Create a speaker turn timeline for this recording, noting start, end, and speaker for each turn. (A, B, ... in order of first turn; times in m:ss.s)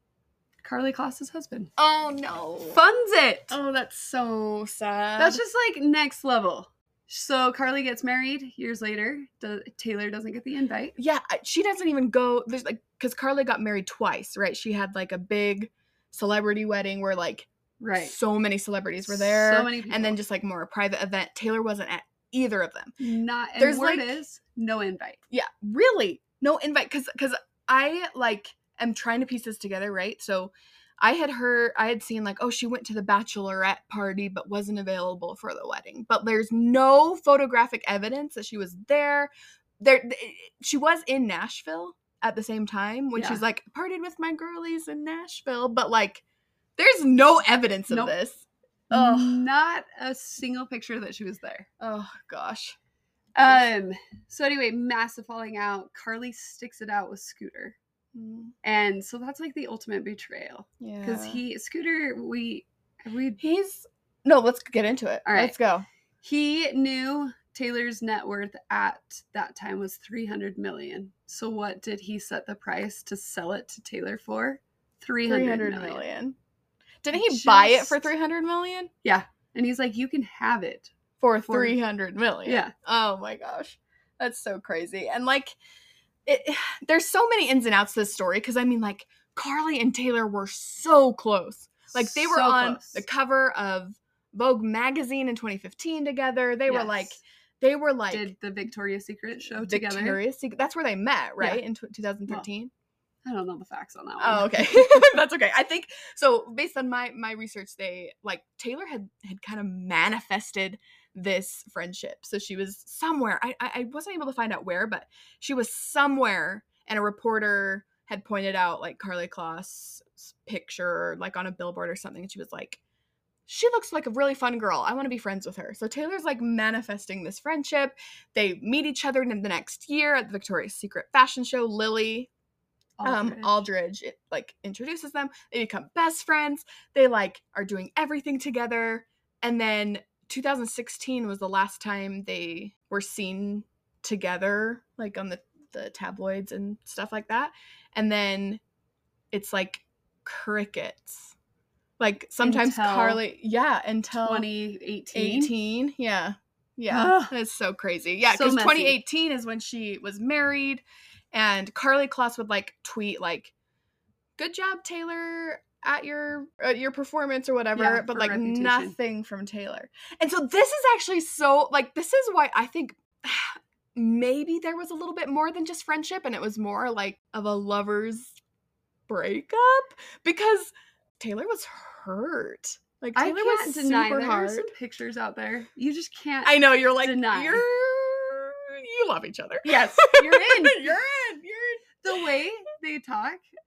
0:00.6-0:01.7 A
0:01.8-0:02.8 B
0:02.7-0:03.6 A
0:03.5-0:05.4 B
0:05.2-0:10.9 A
0:11.0-0:17.5 B
0:17.8-0:18.2 A
0:18.0-0:23.0 B
0:19.0-0:20.2 A
0:23.0-0:25.2 A
0:23.6-0:24.2 B
0:25.3-0:46.2 B
0:43.1-0:43.4 A
0:46.8-0:49.4 B
0:47.9-0:48.2 A
0:48.9-0:51.7 A
0:51.8-0:52.8 B
0:53.4-0:57.8 A
0:58.1-0:58.5 B
0:58.6-1:03.4 A
1:00.8-1:01.4 B
1:03.4-1:05.8 B
1:05.2-1:05.5 A
1:06.2-1:16.0 A
1:15.2-1:16.4 B
1:17.0-1:18.9 B
1:17.1-1:18.0 A
1:19.0-1:20.9 A
1:21.2-1:25.6 B
1:21.5-1:21.8 A
1:22.4-1:22.7 A
1:26.2-1:38.3 B
1:31.9-1:33.0 A
1:36.6-1:37.2 A
1:38.1-1:40.2 A
1:39.4-1:42.7 B
1:43.2-1:45.0 A
1:44.2-2:02.8 B
2:03.5-2:12.3 B
2:13.0-2:13.6 A
2:13.0-2:28.6 B
2:29.3-2:31.3 B
2:32.0-2:34.5 B
2:32.4-2:33.2 A
2:34.2-2:35.5 A
2:35.1-2:43.5 B
2:36.9-2:37.3 A
2:38.3-2:39.0 A
2:44.4-2:58.4 B
2:47.7-2:48.9 A
2:59.1-3:04.7 B
3:03.2-3:07.6 A
3:06.4-3:12.3 B
3:09.6-3:11.0 A
3:12.0-3:13.4 A